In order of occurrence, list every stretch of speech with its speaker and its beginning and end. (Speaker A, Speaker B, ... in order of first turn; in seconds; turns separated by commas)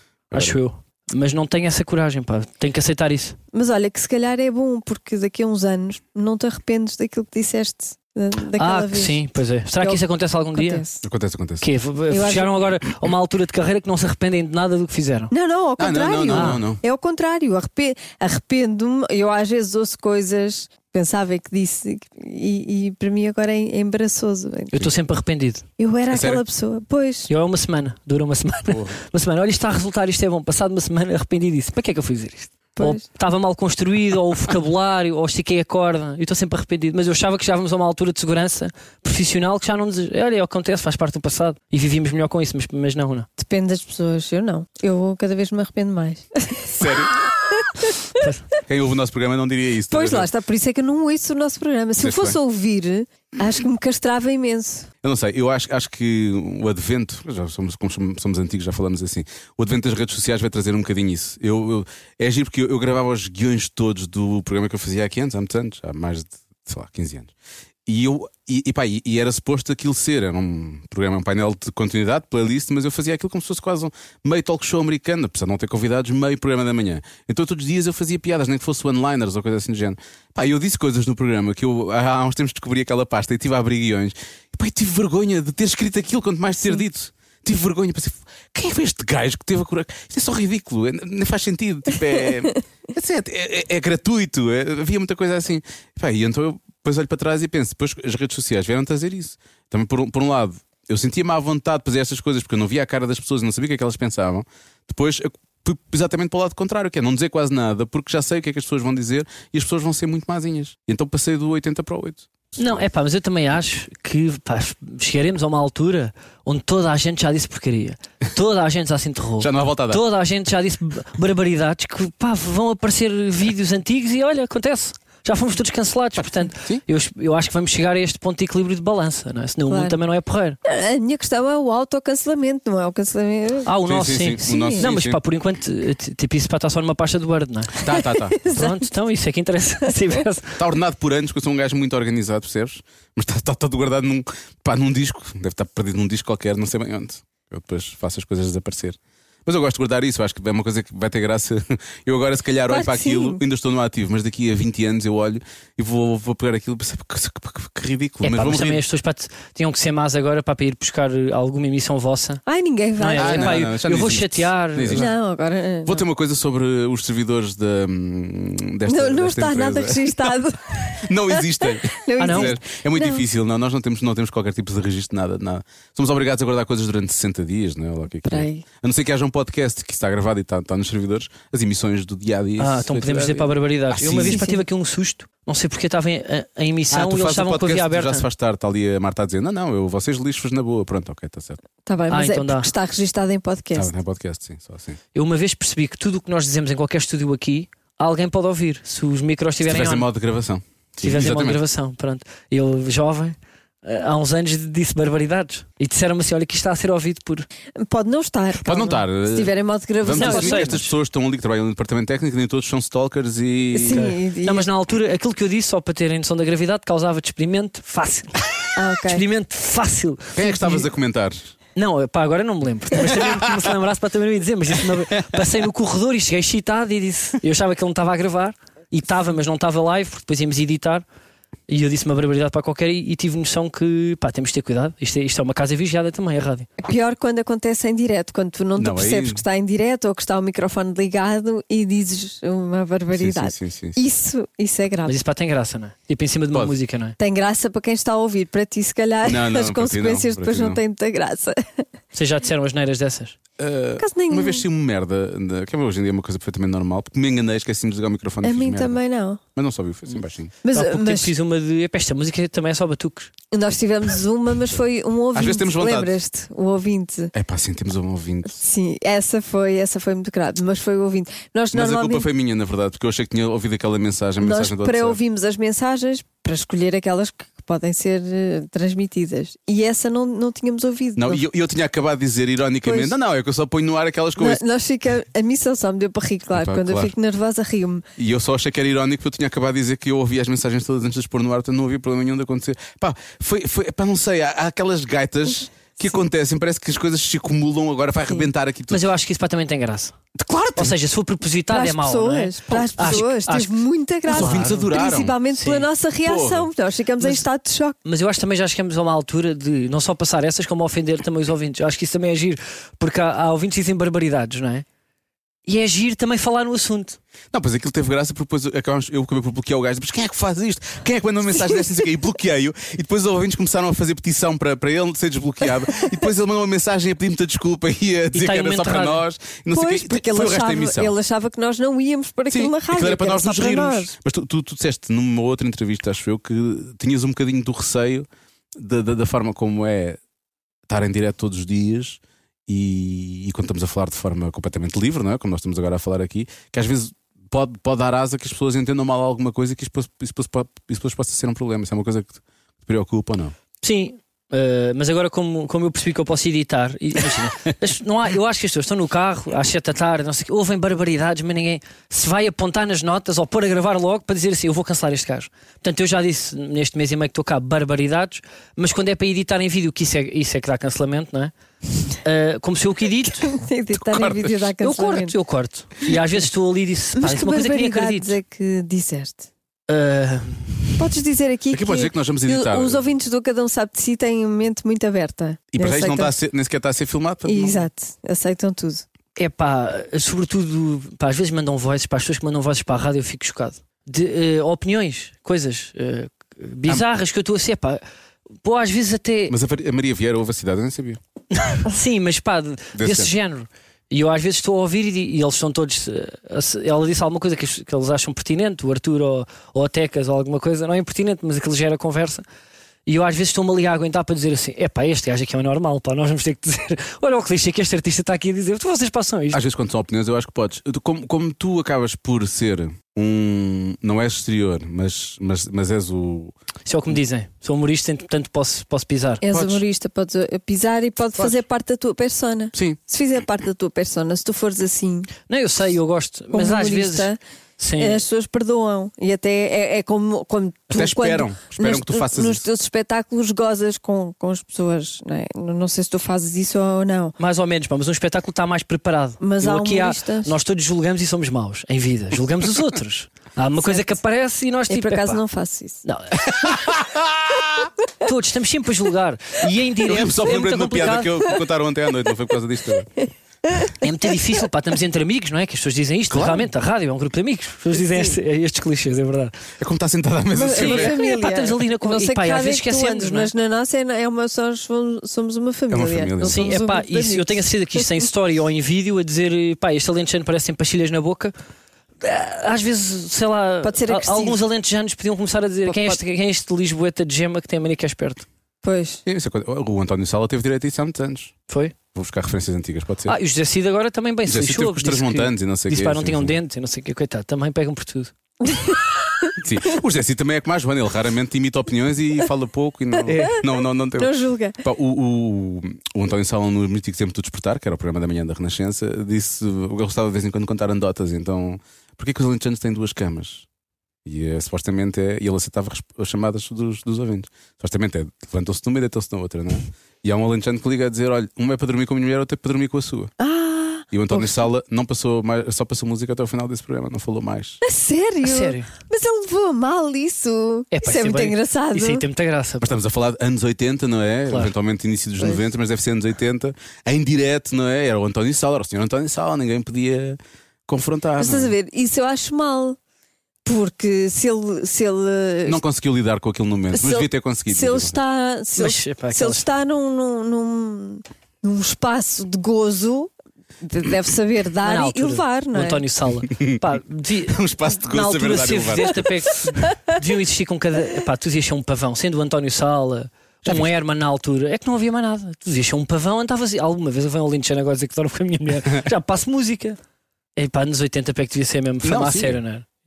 Speaker A: 0.3-0.6, Speaker B: 0.3-3.4, Speaker C: 3.5-9.2, Speaker B: 8.6-10.8, Speaker C: 10.5-11.0, Speaker A: 11.0-11.7, Speaker B: 11.6-15.3, Speaker C: 12.1-12.6, Speaker C: 15.3-24.8, Speaker A: 15.8-16.8, Speaker B: 16.3-16.6, Speaker B: 24.7-25.6, Speaker C: 25.8-27.3, Speaker A: 26.1-26.4, Speaker B: 27.3-43.3, Speaker A: 28.7-29.0, Speaker C: 32.8-33.0, Speaker C: 43.4-48.2, Speaker A: 46.8-47.1, Speaker A: 48.6-50.3, Speaker C: 49.9-54.9, Speaker A: 52.0-52.4, Speaker A: 55.0-67.3, Speaker A: 67.8-112.9, Speaker B: 112.5-130.6, Speaker A: 119.4-120.0, Speaker A: 126.2-126.8, Speaker C: 129.7-130.0, Speaker C: 130.6-133.7, Speaker B: 133.7-140.6, Speaker A: 133.8-135.2, Speaker C: 134.4-134.8, Speaker A: 137.8-138.3, Speaker C: 138.3-138.8, Speaker A: 140.6-158.8, Speaker C: 152.7-153.4, Speaker B: 158.2-162.4, Speaker C: 162.4-163.6, Speaker B: 163.0-165.1, Speaker A: 163.2-165.1, Speaker C: 164.9-166.0, Speaker A: 165.8-170.4, Speaker C: 168.9-173.2, Speaker A: 171.0-184.5, Speaker B: 172.2-172.5, Speaker C: 178.2-178.6, Speaker B: 182.6-188.2, Speaker C: 184.2-184.6, Speaker A: 186.9-191.6, Speaker C: 191.8-193.9, Speaker B: 192.1-192.7, Speaker A: 193.7-195.0, Speaker B: 195.1-200.1, Speaker A: 199.6-201.6, Speaker B: 201.0-207.5, Speaker C: 207.8-210.7, Speaker A: 208.6-214.1, Speaker B: 210.2-210.9, Speaker C: 213.7-214.7, Speaker B: 213.9-218.4, Speaker C: 218.7-219.2, Speaker B: 219.1-220.8, Speaker A: 220.3-221.5, Speaker B: 221.8-231.0, Speaker A: 222.9-223.6, Speaker B: 231.7-236.7, Speaker C: 236.8-245.2, Speaker A: 238.8-239.4, Speaker A: 243.1-244.0, Speaker B: 245.1-247.2, Speaker C: 247.2-251.8, Speaker A: 249.2-250.8, Speaker B: 252.1-253.4, Speaker A: 253.6-259.0, Speaker C: 254.0-254.6, Speaker C: 258.4-259.4, Speaker A: 259.5-260.5, Speaker C: 260.6-261.3, Speaker B: 260.7-263.3, Speaker C: 263.5-267.3, Speaker A: 265.3-266.2, Speaker A: 267.3-268.5, Speaker C: 268.5-272.3, Speaker A: 271.7-275.2, Speaker C: 274.4-281.4, Speaker A: 281.2-284.6, Speaker C: 282.8-283.1, Speaker C: 284.4-288.0, Speaker A: 286.5-287.1, Speaker A: 288.2-299.0, Speaker B: 298.9-300.1, Speaker A: 300.3-300.9, Speaker B: 300.8-303.7, Speaker C: 301.7-308.0, Speaker A: 302.7-303.2, Speaker B: 304.3-304.9, Speaker A: 304.3-305.4, Speaker B: 305.5-305.9, Speaker A: 306.2-306.7, Speaker B: 308.0-314.8, Speaker B: 315.6-317.2, Speaker A: 317.5-331.1, Speaker B: 328.3-329.2, Speaker C: 329.7-334.1, Speaker A: 332.5-340.2, Speaker A: 340.9-353.5, Speaker B: 353.8-371.5, Speaker B: 372.2-373.5, Speaker C: 373.4-375.3, Speaker A: 374.0-374.7, Speaker B: 374.8-378.4, Speaker C: 377.1-379.5, Speaker B: 379.9-381.0, Speaker C: 381.0-386.3, Speaker A: 381.7-383.1, Speaker A: 385.7-387.9, Speaker C: 387.4-389.0, Speaker B: 389.4-398.0, Speaker B: 398.6-399.5, Speaker A: 399.5-401.2, Speaker B: 401.5-412.4, Speaker A: 402.9-403.3, Speaker B: 413.1-419.6, Speaker A: 419.5-426.5, Speaker B: 426.9-429.4, Speaker C: 429.4-435.3, Speaker A: 429.5-429.8, Speaker B: 435.5-438.2, Speaker C: 436.5-437.4, Speaker C: 438.0-447.4, Speaker A: 440.9-442.6, Speaker B: 447.4-455.4, Speaker C: 449.4-450.5, Speaker C: 453.8-454.1, Speaker C: 454.9-456.0, Speaker B: 456.0-456.7, Speaker A: 456.5-457.9, Speaker B: 458.2-461.4, Speaker A: 460.0-463.1, Speaker C: 463.7-463.9, Speaker B: 464.0-469.5, Speaker A: 466.3-466.7, Speaker C: 467.9-468.3, Speaker A: 469.8-471.1, Speaker C: 470.5-478.0, Speaker B: 470.8-473.5, Speaker A: 475.9-476.7, Speaker B: 476.4-481.5, Speaker B: 482.2-488.5, Speaker C: 483.8-484.6, Speaker C: 485.9-486.2, Speaker C: 488.8-489.2, Speaker A: 489.2-491.5, Speaker B: 491.7-491.9, Speaker A: 492.1-493.3, Speaker B: 493.2-498.3, Speaker A: 494.5-496.6, Speaker C: 498.6-499.5, Speaker A: 499.6-513.6, Speaker B: 503.3-503.5, Speaker C: 503.3-504.8, Speaker A: 514.2-523.3, Speaker C: 523.4-524.6, Speaker A: 524.1-527.8, Speaker C: 527.8-532.2, Speaker B: 528.4-528.9, Speaker B: 530.9-532.9, Speaker A: 532.8-541.7, Speaker C: 541.4-543.0, Speaker C: 543.6-545.8, Speaker A: 545.6-548.2, Speaker C: 546.9-553.3, Speaker B: 548.8-549.6, Speaker C: 553.8-556.0, Speaker B: 554.8-570.0, Speaker A: 556.4-556.8, Speaker A: 557.5-559.3, Speaker A: 563.6-563.9, Speaker B: 570.5-572.9, Speaker A: 572.0-572.6